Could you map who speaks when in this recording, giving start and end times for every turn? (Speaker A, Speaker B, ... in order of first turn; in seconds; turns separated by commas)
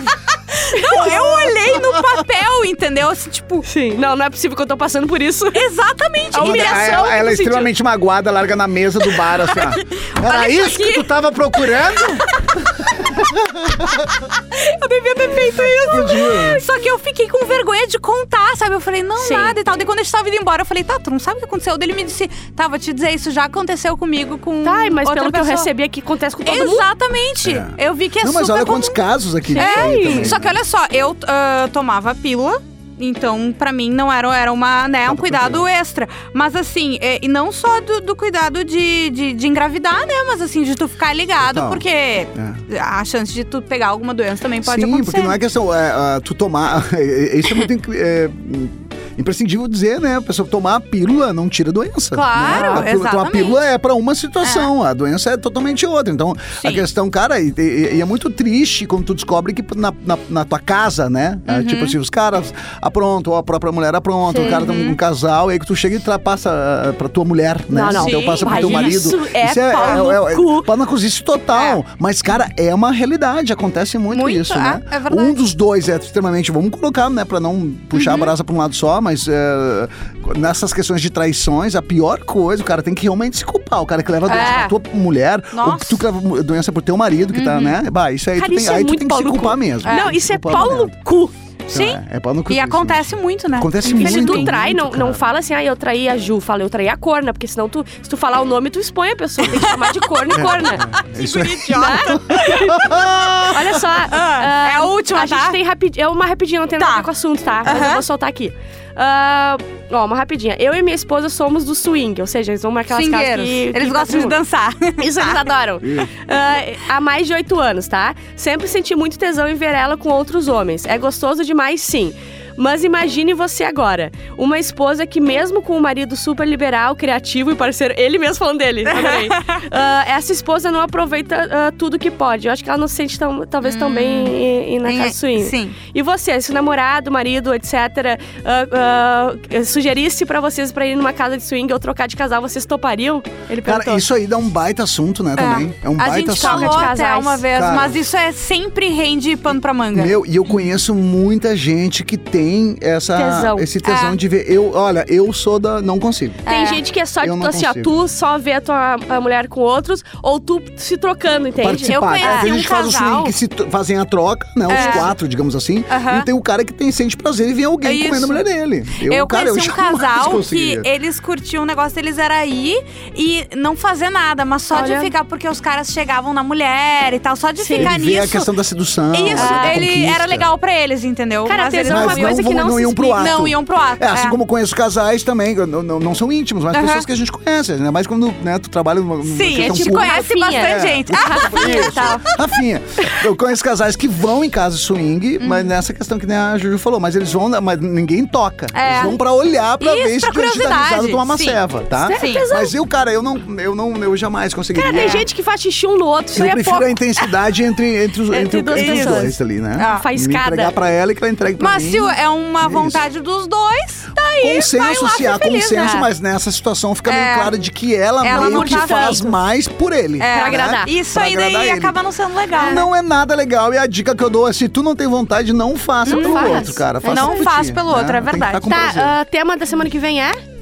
Speaker A: 0.6-3.6, Speaker B: 0.7-1.0, Speaker C: 0.9-2.1, Speaker B: 3.6-5.7, Speaker A: 5.5-7.0, Speaker B: 6.3-7.7, Speaker C: 6.4-14.1, Speaker A: 9.5-12.5, Speaker A: 14.1-25.7, Speaker C: 15.9-16.6, Speaker B: 19.2-19.5, Speaker B: 24.6-26.9, Speaker A: 26.4-29.0, Speaker C: 27.4-30.6, Speaker B: 29.5-30.3, Speaker A: 29.6-45.4, Speaker C: 35.0-35.6, Speaker C: 41.4-41.8, Speaker C: 42.3-42.6, Speaker C: 44.6-90.9, Speaker A: 52.1-53.6, Speaker B: 52.4-52.9, Speaker A: 54.4-54.7, Speaker A: 56.6-56.8, Speaker A: 61.5-62.0, Speaker B: 64.3-64.6, Speaker A: 64.4-65.0, Speaker B: 67.7-70.7, Speaker A: 67.9-69.0, Speaker A: 69.8-70.1, Speaker A: 71.5-71.8, Speaker A: 74.1-75.4, Speaker A: 77.9-78.3, Speaker B: 84.3-84.8, Speaker A: 84.3-84.6, Speaker A: 85.5-86.0, Speaker A: 87.3-87.8, Speaker B: 88.3-91.3, Speaker A: 89.8-90.7, Speaker C: 91.7-95.2, Speaker A: 91.7-94.5, Speaker B: 94.0-100.9, Speaker A: 99.6-103.5, Speaker C: 100.3-103.8, Speaker B: 101.7-102.8, Speaker B: 103.5-114.4, Speaker A: 104.1-105.6, Speaker A: 106.8-107.1, Speaker A: 107.6-108.0, Speaker A: 112.9-115.5, Speaker B: 115.0-144.0, Speaker C: 115.8-116.1, Speaker A: 128.8-129.6, Speaker A: 133.6-135.8, Speaker C: 143.6-146.9, Speaker A: 145.3-150.2, Speaker B: 146.4-147.4, Speaker C: 147.5-147.9, Speaker C: 149.9-156.4, Speaker B: 153.1-153.7, Speaker A: 153.8-154.2, Speaker A: 156.4-156.8, Speaker B: 156.5-162.6, Speaker C: 157.2-157.9, Speaker C: 161.6-170.9, Speaker A: 161.9-163.3, Speaker B: 164.7-165.1, Speaker A: 164.7-165.1, Speaker A: 165.9-166.3, Speaker A: 167.8-168.4, Speaker A: 169.0-178.5, Speaker B: 174.7-175.1, Speaker B: 177.6-177.9, Speaker C: 177.8-180.5, Speaker A: 179.1-184.3, Speaker B: 179.3-179.8, Speaker B: 181.4-183.4, Speaker C: 181.9-205.2, Speaker A: 186.7-187.0, Speaker A: 189.2-192.4, Speaker B: 189.5-192.2, Speaker A: 195.4-195.7, Speaker A: 198.7-199.2, Speaker A: 199.8-201.6, Speaker B: 202.0-202.7, Speaker A: 202.1-202.4, Speaker B: 204.7-207.0, Speaker A: 204.9-205.2, Speaker C: 206.3-213.0, Speaker B: 208.3-210.7, Speaker A: 208.7-210.1, Speaker A: 211.6-216.1, Speaker C: 214.4-221.9, Speaker A: 217.1-217.5, Speaker A: 218.2-219.3, Speaker B: 218.3-219.3, Speaker A: 220.2-222.8, Speaker B: 220.3-220.9, Speaker C: 222.6-229.1, Speaker B: 226.1-227.5, Speaker A: 226.1-228.8, Speaker B: 228.7-230.4